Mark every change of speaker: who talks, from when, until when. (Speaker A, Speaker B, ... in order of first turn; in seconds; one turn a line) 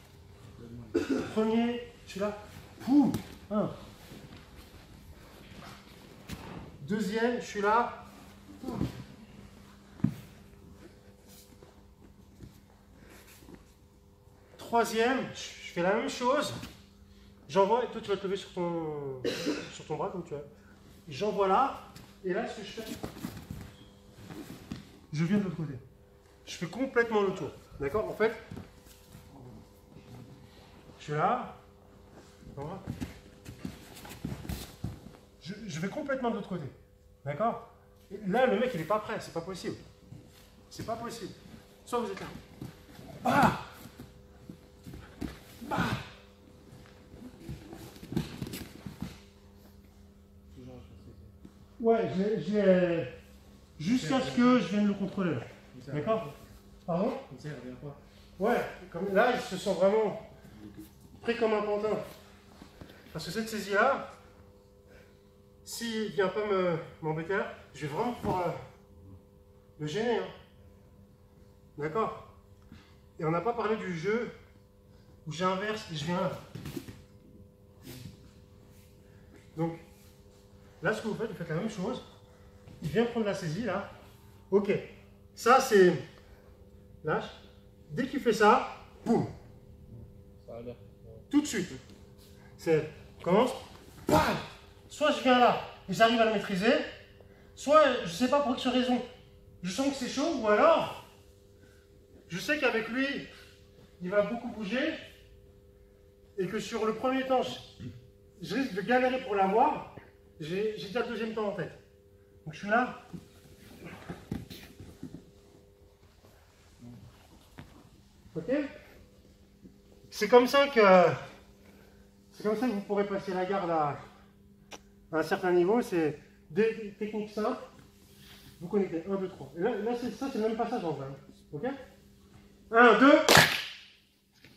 Speaker A: 0.6-1.0
Speaker B: 1.0-3.7
Speaker B: 6.8-8.0
Speaker B: 14.6-16.6
Speaker B: 17.5-20.5
Speaker B: 21.1-22.9
Speaker B: 25.1-25.8
Speaker B: 26.4-28.4
Speaker B: 31.0-31.6
Speaker B: 32.5-32.8
Speaker B: 35.4-39.8
Speaker B: 40.7-42.4
Speaker B: 43.2-43.6
Speaker B: 45.6-46.0
Speaker A: 50.5-51.3
Speaker B: 51.8-53.1
Speaker B: 53.8-56.3
Speaker A: 53.9-54.6
Speaker A: 55.7-56.4
Speaker B: 56.9-57.2
Speaker A: 57.3-58.0
Speaker B: 58.4-60.3
Speaker B: 61.2-62.0
Speaker B: 63.1-64.1
Speaker B: 65.6-68.6
Speaker B: 69.8-70.3
Speaker B: 71.8-72.3
Speaker B: 73.2-74.3
Speaker B: 75.2-76.4
Speaker B: 79.5-79.8
Speaker B: 80.8-82.0
Speaker B: 82.8-83.9
Speaker B: 84.5-86.0
Speaker B: 87.0-87.4
Speaker B: 87.9-89.3
Speaker A: 89.9-91.2
Speaker B: 91.3-91.8
Speaker B: 92.6-96.9
Speaker B: 97.5-99.1
Speaker B: 99.6-101.0
Speaker B: 102.3-103.3
Speaker B: 104.0-105.0
Speaker B: 106.4-107.7
Speaker B: 108.4-111.8
Speaker B: 112.4-113.0
Speaker B: 118.3-118.7
Speaker B: 120.1-121.2
Speaker B: 122.3-124.0
Speaker B: 125.1-127.6
Speaker B: 128.6-131.8
Speaker B: 132.7-133.5